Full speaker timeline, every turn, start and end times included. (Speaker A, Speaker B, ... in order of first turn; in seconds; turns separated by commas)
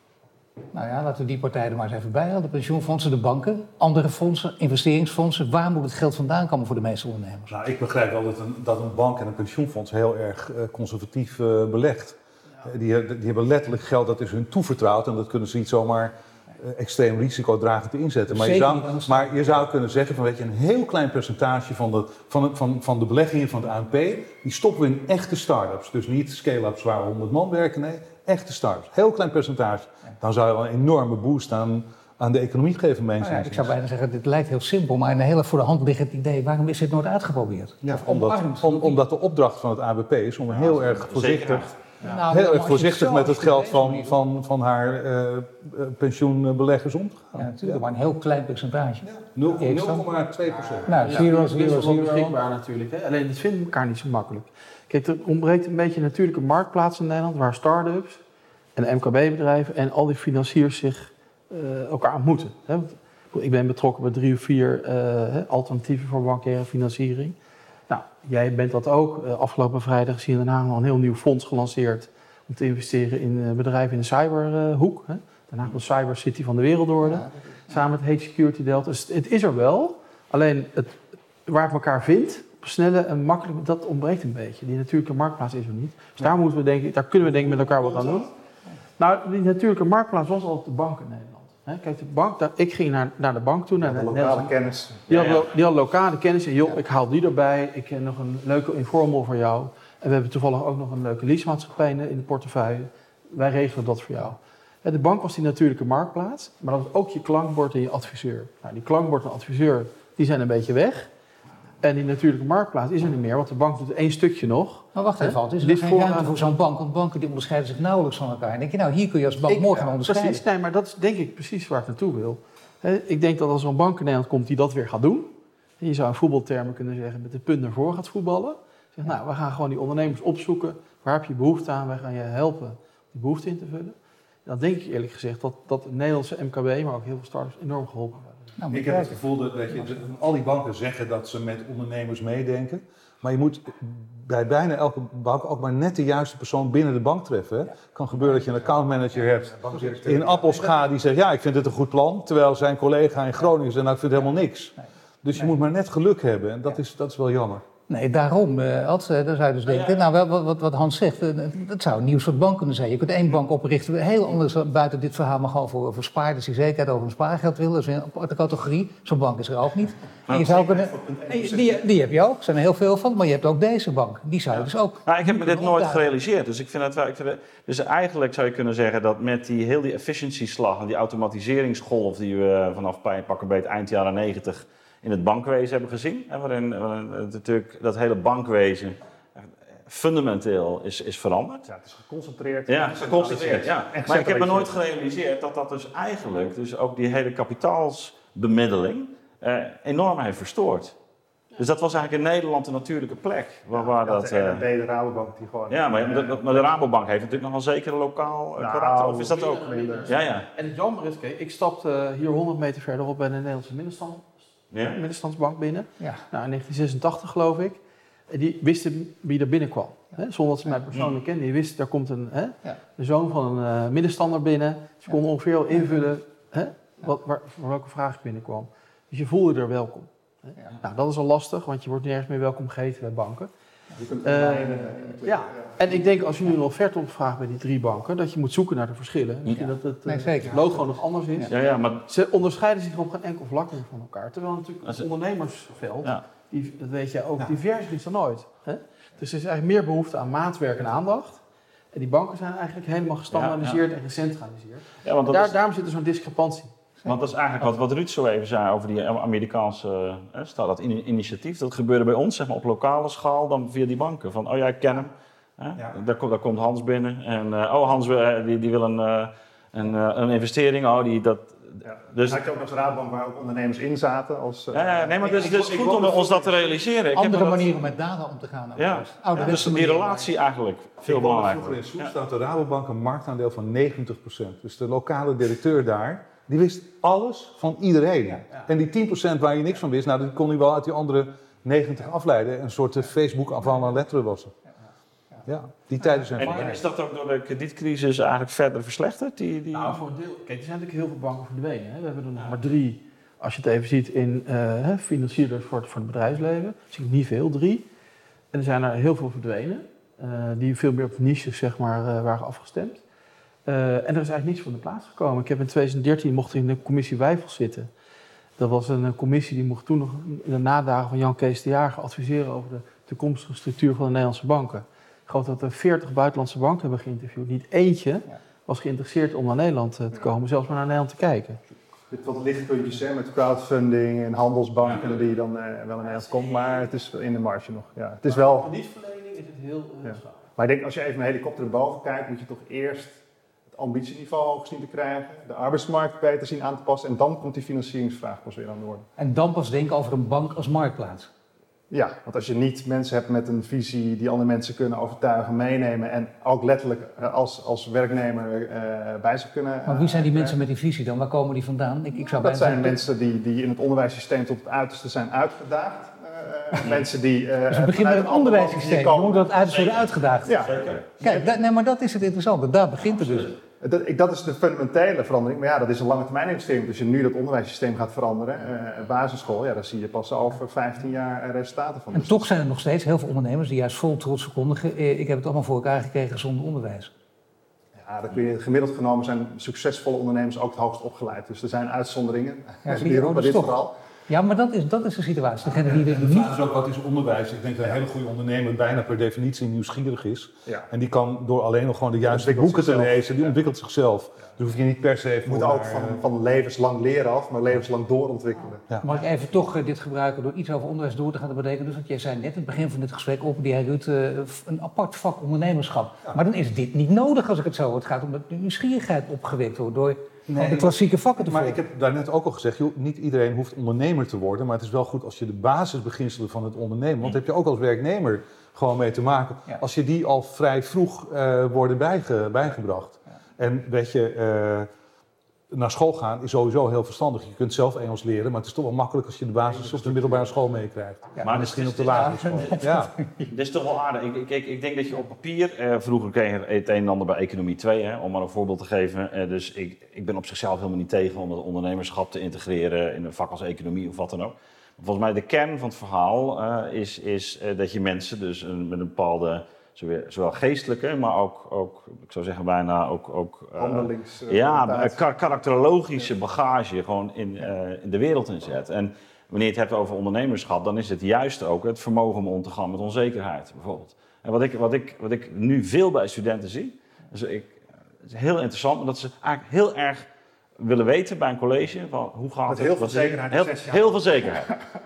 Speaker A: 0.7-7.5, Speaker B: 7.5-33.7, Speaker A: 18.3-19.6, Speaker A: 33.2-39.0, Speaker B: 37.8-47.8, Speaker C: 40.5-41.7, Speaker A: 42.0-44.1, Speaker A: 47.4-50.1, Speaker B: 49.0-51.2, Speaker A: 50.9-52.4, Speaker D: 50.9-58.2, Speaker D: 58.8-67.4, Speaker D: 67.9-88.3, Speaker D: 89.0-94.5, Speaker E: 93.8-95.1, Speaker D: 95.1-111.1, Speaker C: 95.1-95.5, Speaker D: 111.8-116.4, Speaker A: 115.0-120.4, Speaker D: 119.5-138.4, Speaker A: 138.6-139.2, Speaker B: 138.7-157.7, Speaker E: 149.7-150.3, Speaker A: 157.9-176.0, Speaker C: 159.7-160.0, Speaker C: 170.3-170.6, Speaker E: 170.3-171.9, Speaker C: 175.1-189.0, Speaker C: 189.9-191.7, Speaker E: 191.7-194.7, Speaker C: 192.7-200.9, Speaker C: 201.6-204.7, Speaker E: 203.7-206.7, Speaker C: 205.7-210.5, Speaker E: 208.6-210.2, Speaker D: 209.3-214.3, Speaker C: 214.7-215.0, Speaker D: 214.8-217.8, Speaker D: 218.3-233.5, Speaker E: 234.0-235.9, Speaker D: 234.2-241.5, Speaker A: 240.1-240.8, Speaker C: 241.5-242.1, Speaker D: 242.1-251.4, Speaker D: 251.9-256.7, Speaker C: 253.3-253.8, Speaker C: 255.0-255.6, Speaker C: 257.1-272.4, Speaker E: 271.9-276.4, Speaker C: 274.7-277.7, Speaker B: 275.2-276.4, Speaker A: 277.1-280.3, Speaker C: 278.8-282.1, Speaker B: 281.0-294.5, Speaker B: 295.4-296.8, Speaker C: 296.4-300.0, Speaker D: 299.7-307.9, Speaker D: 308.5-313.0, Speaker D: 313.7-317.9, Speaker D: 318.6-331.6, Speaker E: 332.1-338.7, Speaker D: 338.3-340.3, Speaker E: 340.1-343.2, Speaker E: 343.7-349.1, Speaker A: 349.2-351.3, Speaker E: 351.9-360.6, Speaker A: 359.9-363.0, Speaker E: 362.2-369.8, Speaker A: 367.7-370.6, Speaker C: 369.7-369.9, Speaker E: 370.4-371.5, Speaker C: 370.5-371.0, Speaker A: 371.2-373.6, Speaker E: 373.8-382.5, Speaker A: 382.1-387.1, Speaker E: 388.0-393.9, Speaker A: 392.9-396.5, Speaker B: 395.9-406.2, Speaker E: 402.2-403.5, Speaker E: 405.5-408.9, Speaker A: 409.0-421.8, Speaker B: 420.5-434.9, Speaker B: 435.7-443.1, Speaker C: 441.4-442.9, Speaker A: 442.1-443.5, Speaker C: 443.5-480.3, Speaker E: 463.8-465.2, Speaker C: 480.8-484.8, Speaker E: 482.7-484.4